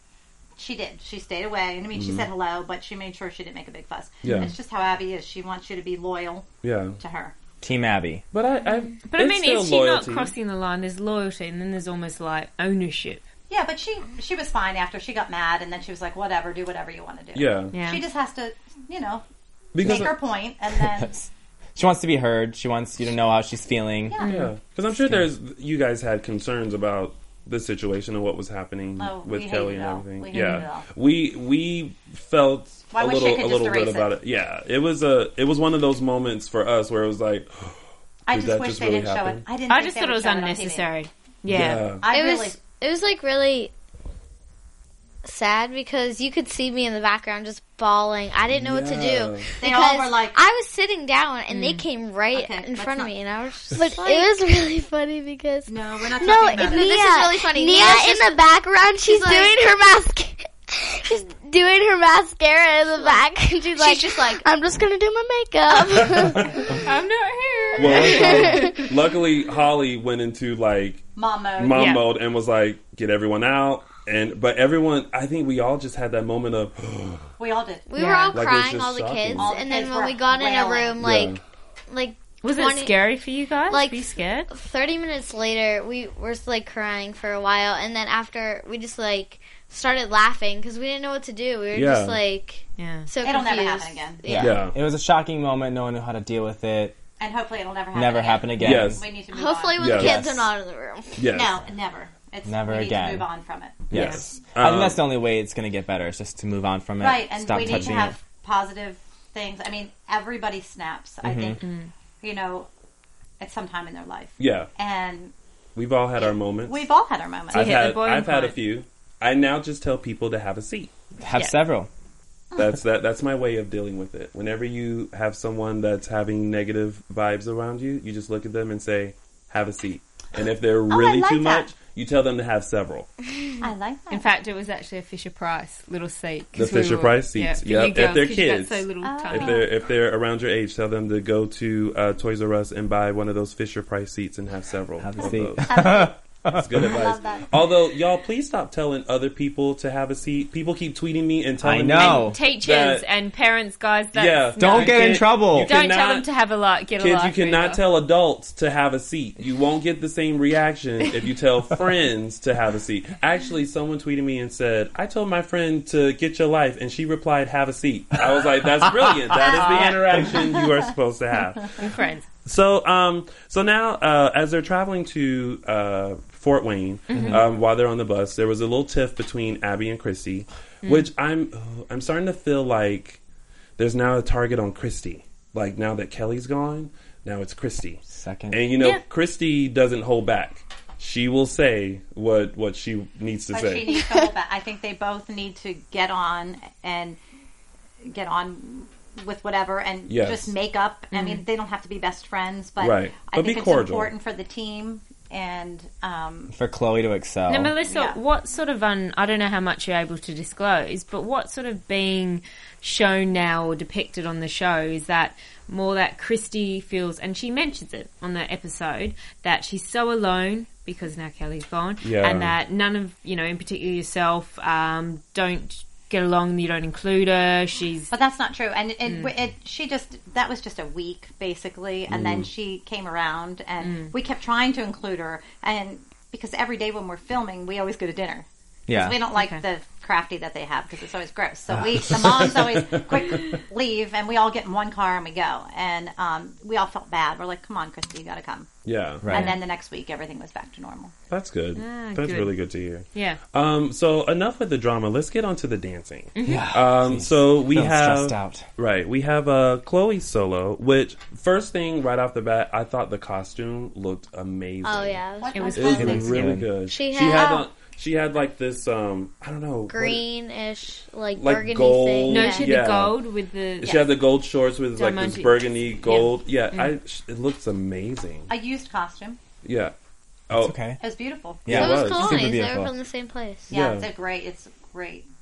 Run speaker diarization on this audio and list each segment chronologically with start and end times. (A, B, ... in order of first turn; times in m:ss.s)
0:00.6-0:06.5 A
0:01.9-0:02.3 B
0:04.2-0:04.5 B
0:06.6-0:07.0 B
0:07.0-0:07.4 A
0:07.6-0:08.2 C
0:08.3-0:10.3 B
0:09.0-0:13.2 D
0:13.5-0:19.2 A
0:17.3-0:17.7 B
0:17.7-0:18.0 D
0:19.7-0:20.1 B
0:19.8-0:21.1 A
0:20.8-0:24.2 C
0:24.1-0:24.4 A
0:24.2-0:24.5 D
0:24.2-0:37.8 B
0:29.0-0:30.9 A
0:30.3-0:30.6 D
0:32.9-0:34.1 A
0:38.3-0:40.9 A
0:38.3-0:39.4 B
0:39.7-0:41.9 D
0:41.5-0:42.0 B
0:42.0-0:42.6 A
0:42.1-0:43.7 E
0:45.2-0:54.3 E
0:48.5-0:49.5 B
0:49.6-0:50.4 A
0:51.5-0:51.8 D
0:52.3-0:53.1 A
0:53.7-1:06.5 F
0:53.8-0:54.2 A
0:55.7-0:57.1 A
0:56.5-0:58.4 E
0:59.0-0:59.6 E
1:03.8-1:04.4 A
1:03.8-1:04.4 E
1:06.2-1:06.6 B
1:06.8-1:08.9 D
1:07.8-1:17.2 B
1:07.9-1:08.8 F
1:11.2-1:12.0 A
1:11.7-1:12.0 D
1:17.4-1:17.9 A
1:17.9-1:21.4 E
1:17.9-1:18.4 D
1:18.3-1:19.5 B
1:19.4-1:21.0 A
1:21.0-1:21.4 B
1:21.9-1:23.0 E
1:22.4-1:24.5 D
1:23.7-1:34.6 E
1:31.7-1:32.2 B
1:32.8-1:33.1 D
1:33.2-1:34.2 A
1:34.2-1:37.0 C
1:34.4-1:34.7 B
1:37.2-1:40.1 A
1:37.9-1:39.0 C
1:38.6-1:39.0 B
1:39.3-1:41.2 E
1:39.8-1:40.2 B
1:39.9-1:40.5 C
1:41.2-1:41.6 B
1:41.3-1:43.9 A
1:42.4-1:43.3 C
1:43.9-1:48.2 C
1:43.9-1:45.0 B
1:43.9-1:44.2 D
1:47.0-1:51.6 A
1:47.6-1:48.0 B
1:51.2-1:51.6 C
1:51.6-1:51.9 D
1:52.2-1:52.7 A
1:53.4-1:55.3 A
1:54.4-1:54.7 B
1:55.8-1:56.9 B
1:56.2-1:57.8 A
1:57.5-2:00.9 B
1:57.5-1:58.6 D
2:01.2-2:01.9 C
2:02.6-2:13.1 B
2:10.9-2:11.7 A
2:13.6-2:14.3 A
2:14.1-2:19.6 D
2:16.5-2:33.0 B
2:19.0-2:19.7 A
2:25.0-2:26.9 C
2:25.7-2:26.2 A
2:26.7-2:27.6 A
2:31.6-2:32.4 C
2:32.0-2:37.8 D
2:34.1-2:36.3 B
2:34.6-2:35.7 C
2:37.0-2:51.8 B
2:49.4-2:50.8 A
2:51.8-2:52.2 D
2:52.4-3:03.2 B
2:57.1-2:57.4 D
2:57.1-2:57.4 C
3:00.8-3:01.1 D
3:03.8-3:13.9 B
3:08.1-3:08.6 C
3:13.5-3:17.2 A
3:18.0-3:26.5 A
3:20.1-3:20.5 B
3:21.1-3:21.4 D
3:22.8-3:24.1 B
3:26.5-3:27.7 C
3:27.5-3:48.1 D
3:27.9-3:28.2 A
3:42.0-3:42.6 B
3:48.1-4:08.7 A
3:52.1-3:52.5 B
3:53.8-3:54.1 D
3:58.9-3:59.2 C
3:59.4-3:59.6 D
4:01.7-4:02.4 C
4:02.0-4:03.6 B
4:08.8-4:09.3 B
4:09.2-4:09.6 C
4:09.3-4:11.1 A
4:11.3-4:25.2 B
4:11.8-4:12.5 D
4:13.1-4:13.4 D
4:16.3-4:16.7 D
4:16.4-4:18.6 C
4:24.8-4:25.9 E
4:25.4-4:27.7 A
4:25.5-4:26.2 D
4:25.7-4:30.2 B
4:26.0-4:26.7 C
4:26.9-4:27.6 E
4:29.9-4:32.7 E
4:31.4-4:33.2 B
4:32.3-4:34.0 D
4:33.8-4:38.5 B
4:35.0-4:36.9 D
4:38.5-4:39.4 A
4:39.6-4:39.9 B
4:40.5-4:40.8 B
4:40.5-4:41.0 C
4:41.0-4:41.9 A
4:41.6-4:42.9 C
4:41.7-4:42.4 B
4:41.7-4:43.7 E
4:43.7-4:45.3 A
4:43.7-4:44.1 B